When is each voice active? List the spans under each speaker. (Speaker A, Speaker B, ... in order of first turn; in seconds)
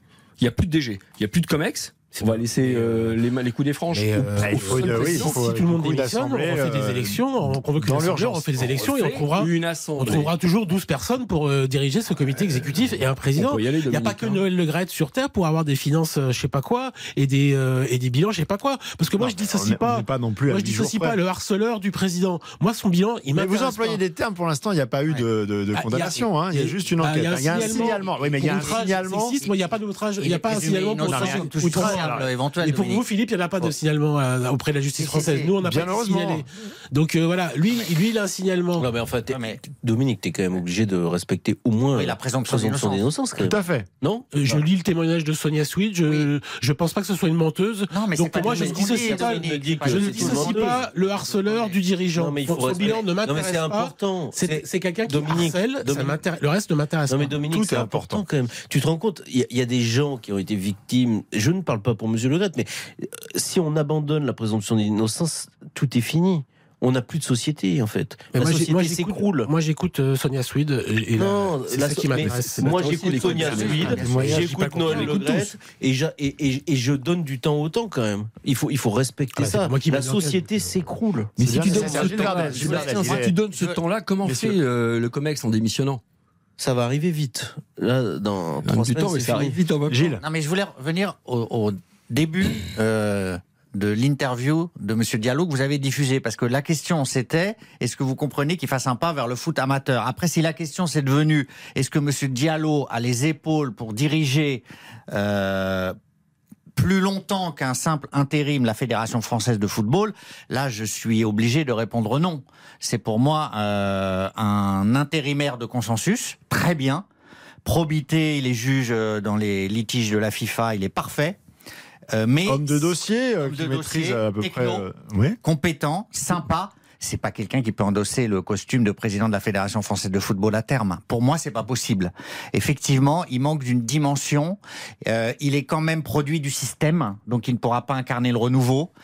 Speaker A: 0.4-5.3, 8.6-10.3, 13.3-14.4, 72.2-75.5, 81.4-86.0, 88.6-90.2
Speaker B: 2.1-3.2, 3.9-24.0, 25.7-38.9, 44.3-57.3, 68.3-73.5, 79.4-80.4
Speaker C: 4.4-8.8, 19.2-21.2, 23.3-29.4, 31.0-32.3, 35.6-36.4, 43.4-43.9, 57.5-58.2, 73.8-75.2, 81.4-83.4, 84.2-84.6, 89.9-90.2, 122.5-125.4
Speaker D: 30.2-33.0, 35.0-35.5, 39.3-39.6, 42.0-43.0, 47.9-51.8, 73.2-74.5, 81.7-83.8, 90.2-105.9, 106.8-117.0, 117.6-121.4, 122.1-124.8, 125.4-138.9
Speaker E: 38.8-44.6, 48.4-50.9, 52.1-56.2, 57.1-69.5, 71.2-81.3, 86.6-89.5